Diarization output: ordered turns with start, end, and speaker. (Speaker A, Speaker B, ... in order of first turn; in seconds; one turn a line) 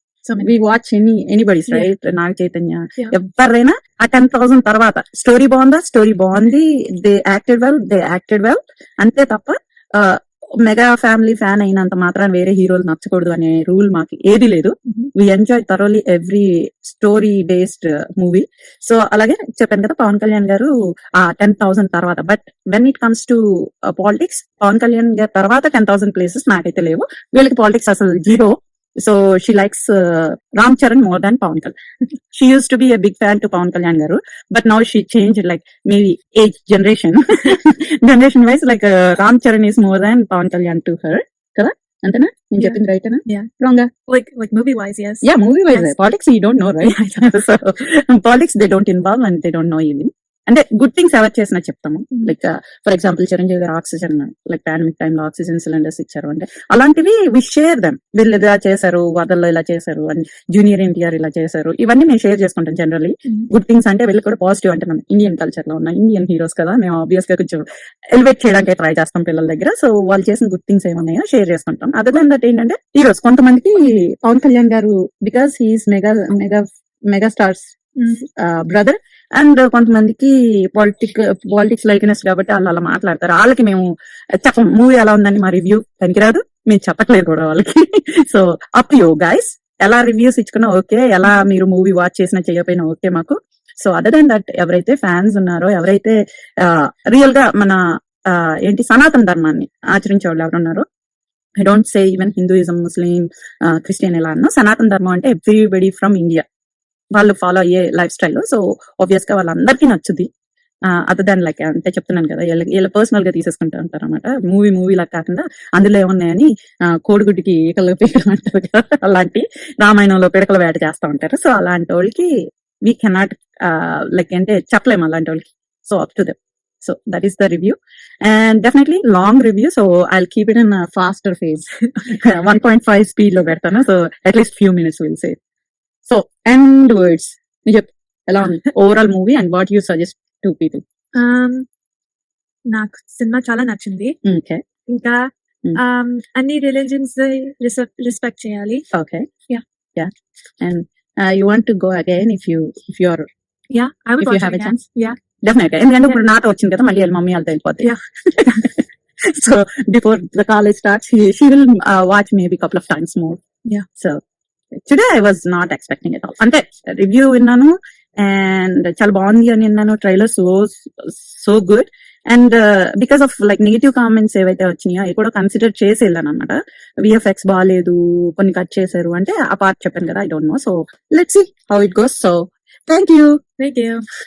Speaker A: 0.4-31.8
Speaker A: 32.3-43.9
Speaker B: 42.6-43.5
Speaker B: 44.0-46.0
Speaker A: 45.2-77.7
Speaker B: 46.8-47.4
Speaker B: 78.0-78.2
Speaker A: 78.3-83.9
Speaker A: 84.4-100.8
Speaker A: 101.6-106.4
Speaker A: 107.1-110.3
Speaker A: 110.8-135.4
Speaker A: 136.1-140.8
Speaker B: 141.1-141.7
Speaker B: 142.7-144.2
Speaker A: 144.2-144.6
Speaker B: 144.9-148.8
Speaker A: 148.9-149.3
Speaker A: 149.9-153.3
Speaker B: 153.7-155.2
Speaker A: 154.2-154.8
Speaker A: 155.4-163.4
Speaker B: 157.8-158.6
Speaker A: 164.0-164.2
Speaker A: 164.9-183.4
Speaker B: 183.6-184.0